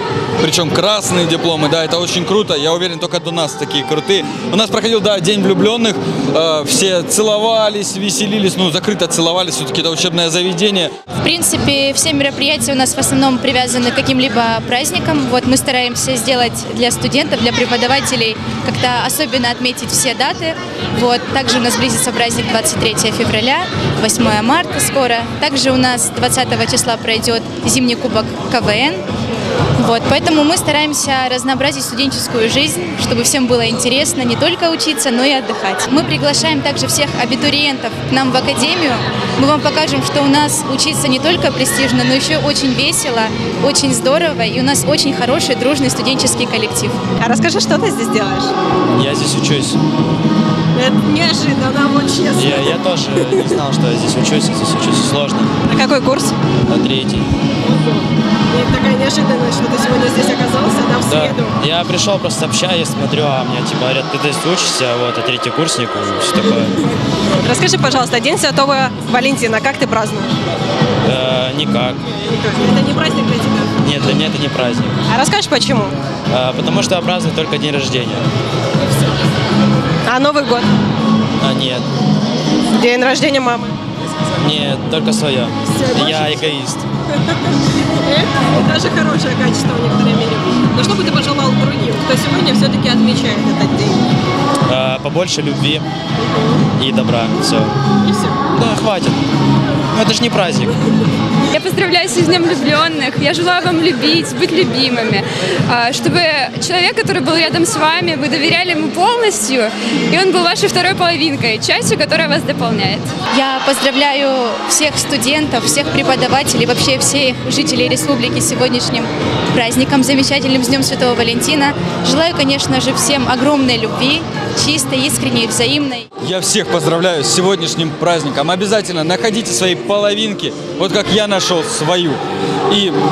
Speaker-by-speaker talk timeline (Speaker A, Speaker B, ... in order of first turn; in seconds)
Speaker A: 0.4-10.9, 126.2-132.9
Speaker B: 11.2-29.0, 29.8-47.0, 113.3-126.0
Speaker C: 47.2-48.5, 50.7-52.7, 55.7-56.3, 58.5-61.5, 67.4-70.4, 72.3-73.7, 75.1-75.9, 80.1-80.7, 82.7-83.7, 85.7-86.4, 88.0-94.0, 96.2-96.6, 98.0-98.4
Speaker D: 48.9-49.8, 52.3-55.5, 56.7-57.3, 61.0-66.8, 71.0-72.0, 73.8-75.0, 76.3-78.3, 81.4-81.9, 84.4-86.8, 94.7-95.9, 96.7-97.7, 98.5-99.2, 99.9-100.8
Speaker E: 101.5-113.1